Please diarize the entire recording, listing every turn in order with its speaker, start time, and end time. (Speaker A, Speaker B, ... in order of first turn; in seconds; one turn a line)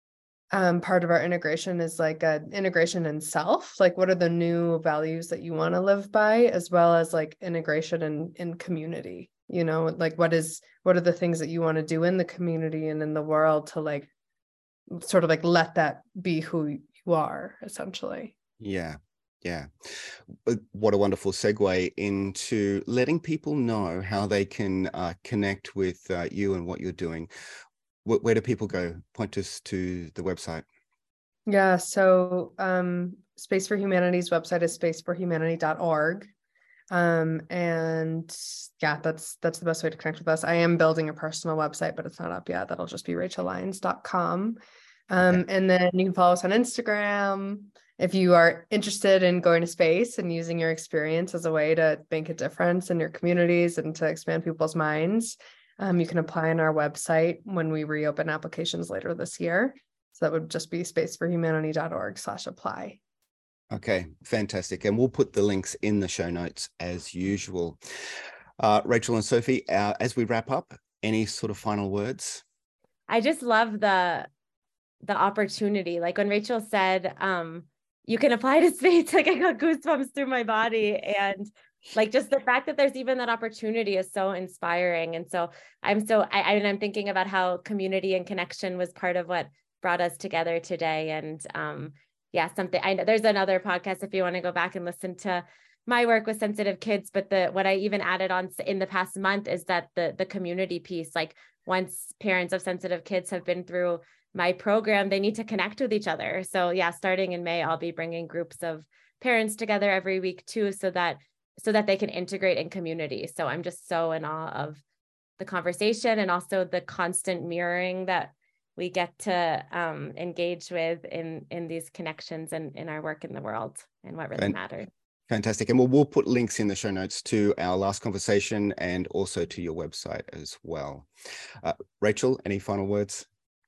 Speaker A: 0.5-14.1
Speaker A: 14.9-18.3
Speaker B: 18.6-27.3
Speaker B: 28.1-30.7
Speaker A: 31.5-36.3
Speaker A: 36.9-44.6
Speaker A: 45.1-63.0
Speaker B: 63.7-67.8
Speaker B: 68.6-72.4
Speaker C: 73.1-74.3
Speaker C: 75.0-114.8
Speaker C: 115.4-124.9
Speaker B: 125.3-131.1
Speaker B: 131.6-133.3